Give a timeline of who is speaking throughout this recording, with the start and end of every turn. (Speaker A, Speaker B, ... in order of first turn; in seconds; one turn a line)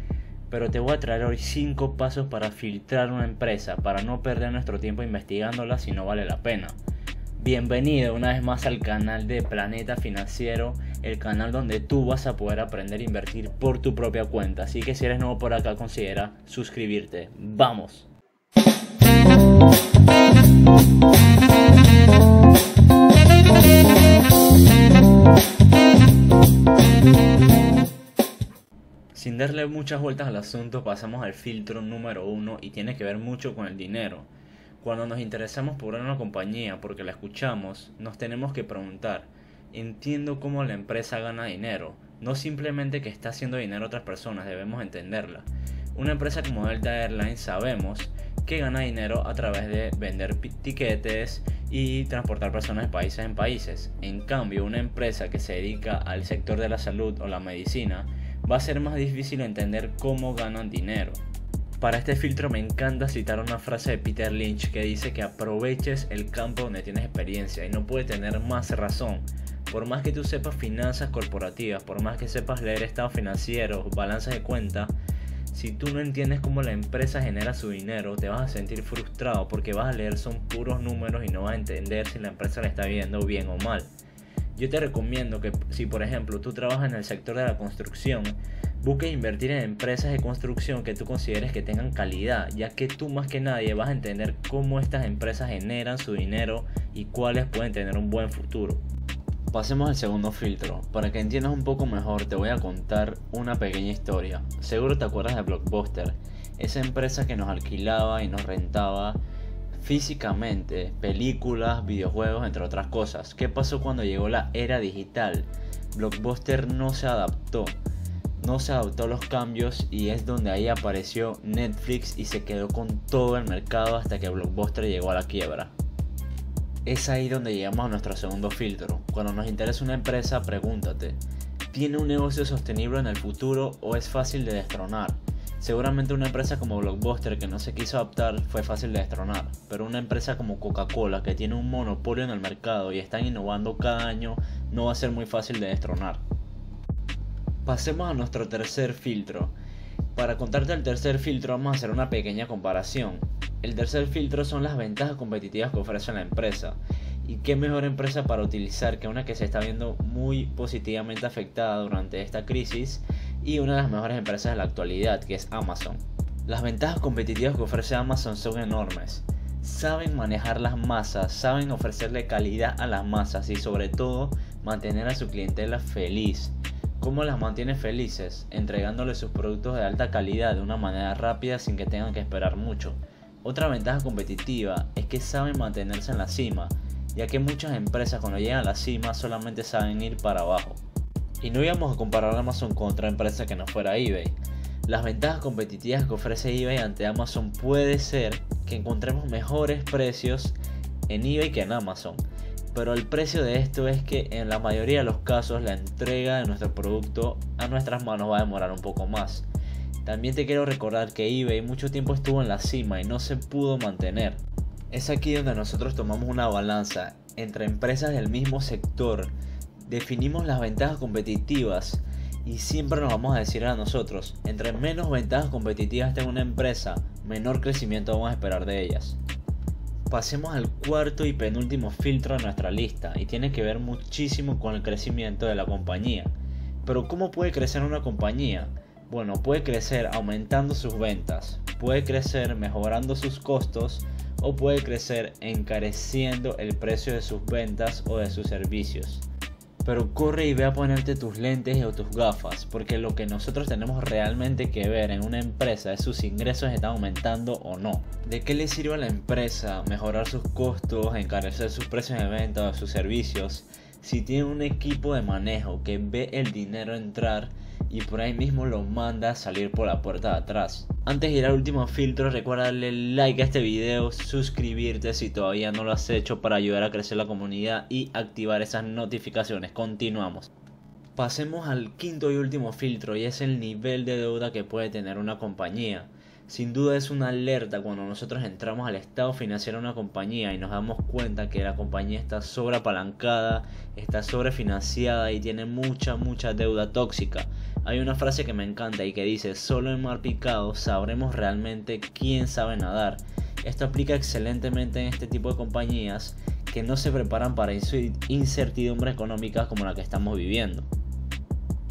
Speaker A: 0.5-6.8
Speaker A: 7.4-18.1
Speaker A: 29.1-34.3
Speaker A: 34.8-61.2
Speaker A: 61.8-74.9
Speaker A: 75.5-83.9
Speaker A: 84.5-98.8
Speaker A: 99.5-109.2
Speaker A: 109.8-117.8
Speaker A: 118.4-125.7
Speaker A: 126.8-131.2
Speaker A: 131.7-146.2
Speaker A: 147.7-149.5
Speaker A: 150.1-190.8
Speaker A: 191.4-200.6
Speaker A: 201.1-209.5
Speaker A: 210.0-219.3
Speaker A: 219.8-229.2
Speaker A: 230.1-236.3
Speaker A: 236.8-249.2
Speaker A: 249.8-280.5
Speaker A: 281.1-310.9